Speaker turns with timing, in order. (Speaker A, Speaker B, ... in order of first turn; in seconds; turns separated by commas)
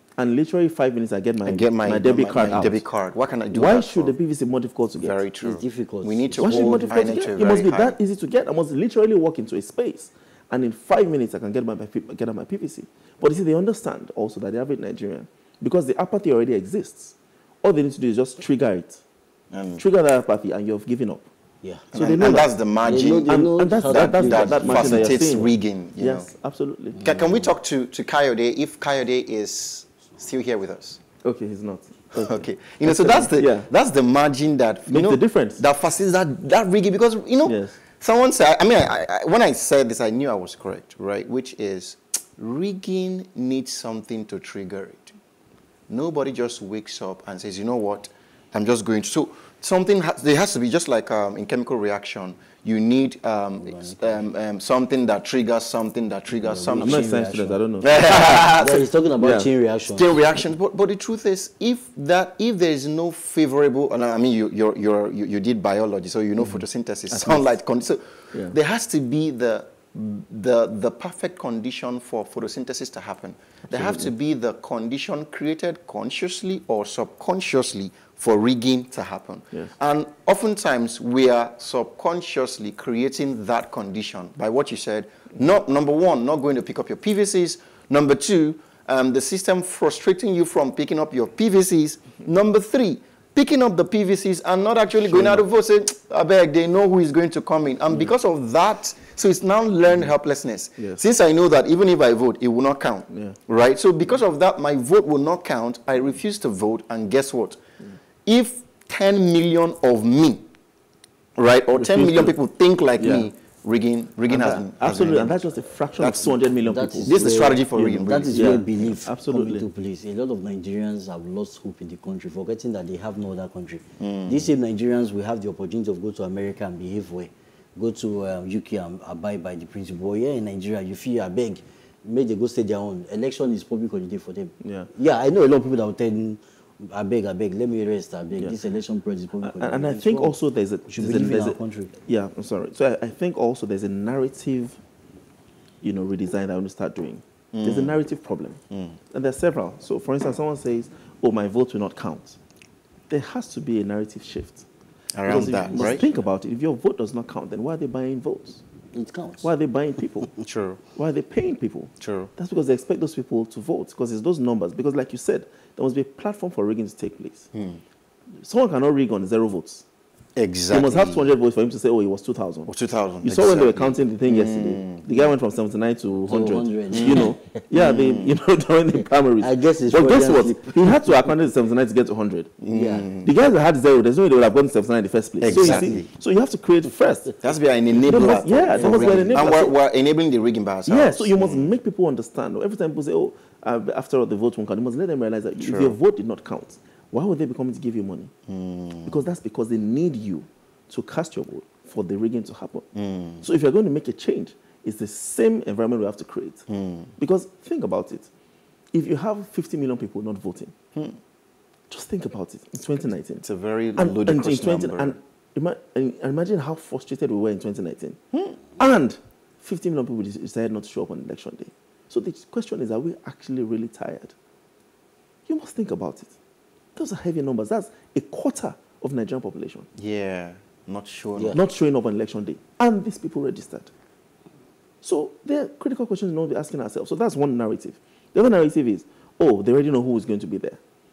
Speaker A: 0.2-2.8, Speaker B: 1.4-4.1, Speaker A: 3.5-5.2, Speaker B: 4.9-8.0, Speaker C: 5.4-7.2, Speaker A: 6.4-19.0, Speaker B: 19.5-19.8, Speaker A: 19.8-21.3, Speaker C: 21.6-21.9, Speaker B: 21.9-26.3, Speaker A: 21.9-22.5, Speaker C: 22.8-25.5, Speaker A: 23.2-27.0, Speaker B: 27.0-31.0, Speaker C: 27.0-27.5, Speaker A: 31.2-33.7, Speaker B: 32.1-45.1, Speaker A: 34.9-35.6, Speaker A: 37.4-37.8, Speaker B: 45.9-57.1, Speaker C: 53.6-54.2, Speaker C: 56.3-57.6, Speaker A: 56.8-58.5, Speaker B: 57.8-58.9, Speaker C: 58.2-60.1, Speaker A: 59.2-59.5, Speaker B: 59.9-107.6, Speaker A: 66.4-67.6, Speaker A: 73.7-74.1, Speaker A: 95.0-95.5, Speaker A: 100.8-101.1, Speaker A: 103.1-103.4, Speaker B: 108.2-110.5, Speaker B: 111.3-116.3, Speaker A: 111.7-112.3, Speaker A: 113.0-113.3, Speaker A: 114.3-119.7, Speaker C: 116.7-141.9, Speaker B: 117.1-118.9, Speaker B: 124.0-124.5, Speaker A: 134.6-134.9, Speaker A: 139.4-144.8, Speaker A: 145.8-148.6, Speaker B: 147.5-148.0, Speaker B: 148.7-149.0, Speaker A: 149.1-152.4, Speaker A: 153.1-154.7, Speaker B: 155.2-156.1, Speaker A: 155.2-158.6, Speaker C: 155.7-156.1, Speaker C: 158.9-159.5, Speaker A: 159.4-160.3, Speaker B: 160.4-160.8, Speaker A: 160.9-167.5, Speaker B: 162.0-162.3, Speaker B: 167.5-167.8, Speaker A: 168.4-169.8, Speaker B: 170.3-171.3, Speaker A: 170.7-172.7, Speaker B: 172.7-175.2, Speaker A: 173.2-182.5, Speaker C: 176.2-177.6, Speaker B: 176.9-178.3, Speaker C: 179.4-180.9, Speaker B: 182.6-183.3, Speaker C: 182.7-183.1, Speaker A: 183.2-187.4, Speaker B: 185.4-186.1, Speaker C: 185.5-186.1, Speaker B: 187.4-191.7, Speaker A: 187.9-189.8, Speaker C: 188.7-189.4, Speaker A: 190.9-198.3, Speaker B: 195.6-196.0, Speaker B: 198.5-199.1, Speaker A: 199.1-202.8, Speaker B: 202.9-203.4, Speaker A: 203.4-206.6, Speaker B: 206.7-207.1, Speaker A: 207.2-208.3, Speaker A: 208.9-210.7, Speaker A: 211.9-213.4, Speaker B: 213.4-215.2, Speaker A: 213.9-218.2, Speaker A: 218.8-224.3, Speaker A: 225.5-226.4, Speaker A: 226.9-229.9, Speaker B: 229.9-231.6, Speaker A: 231.5-233.9, Speaker A: 235.0-240.8